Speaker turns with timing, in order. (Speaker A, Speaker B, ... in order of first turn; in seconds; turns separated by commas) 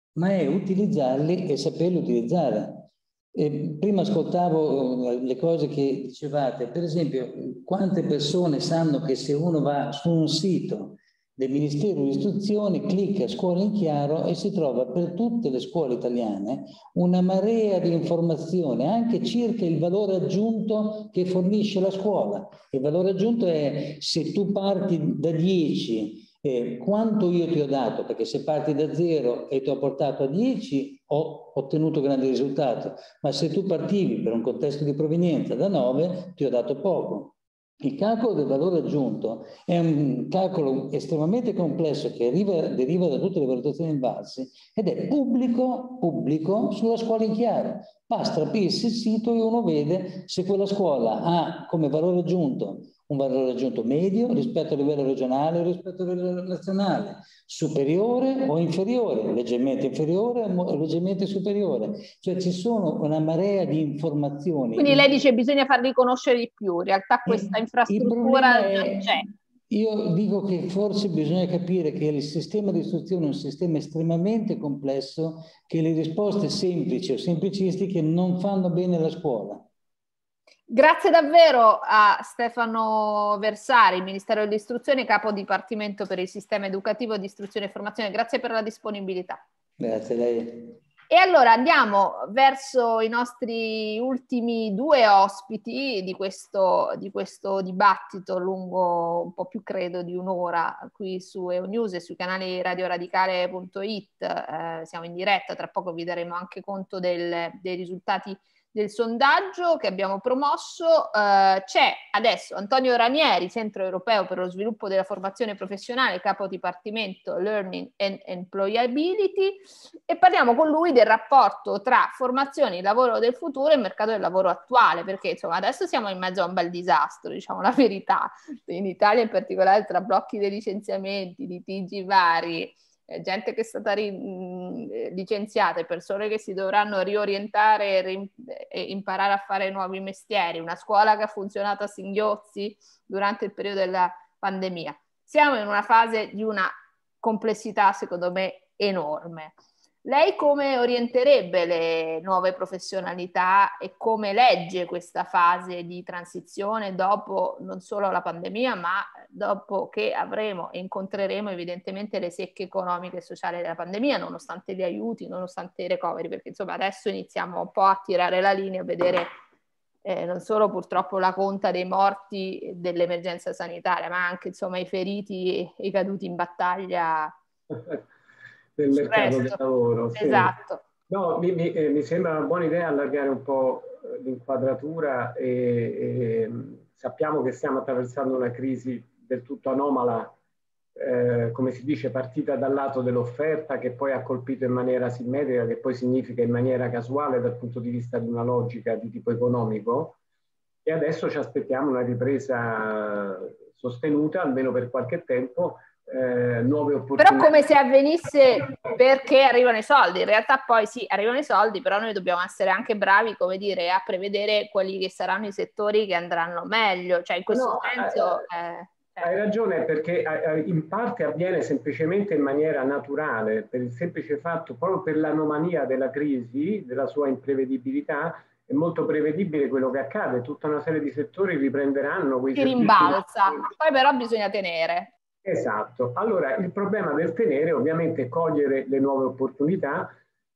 Speaker A: 0.2-65.0, Speaker B: 64.8-69.2, Speaker A: 67.3-79.7, Speaker B: 80.7-89.4, Speaker A: 89.8-90.8, Speaker B: 91.1-169.4, Speaker B: 170.1-177.3, Speaker C: 177.7-178.0, Speaker C: 178.8-180.5, Speaker B: 179.0-179.6, Speaker B: 180.2-180.8, Speaker C: 181.1-190.4, Speaker C: 191.0-200.2, Speaker C: 200.8-207.6, Speaker B: 207.2-219.3, Speaker C: 217.5-218.5, Speaker C: 219.2-233.7, Speaker B: 232.6-235.1, Speaker C: 235.4-240.2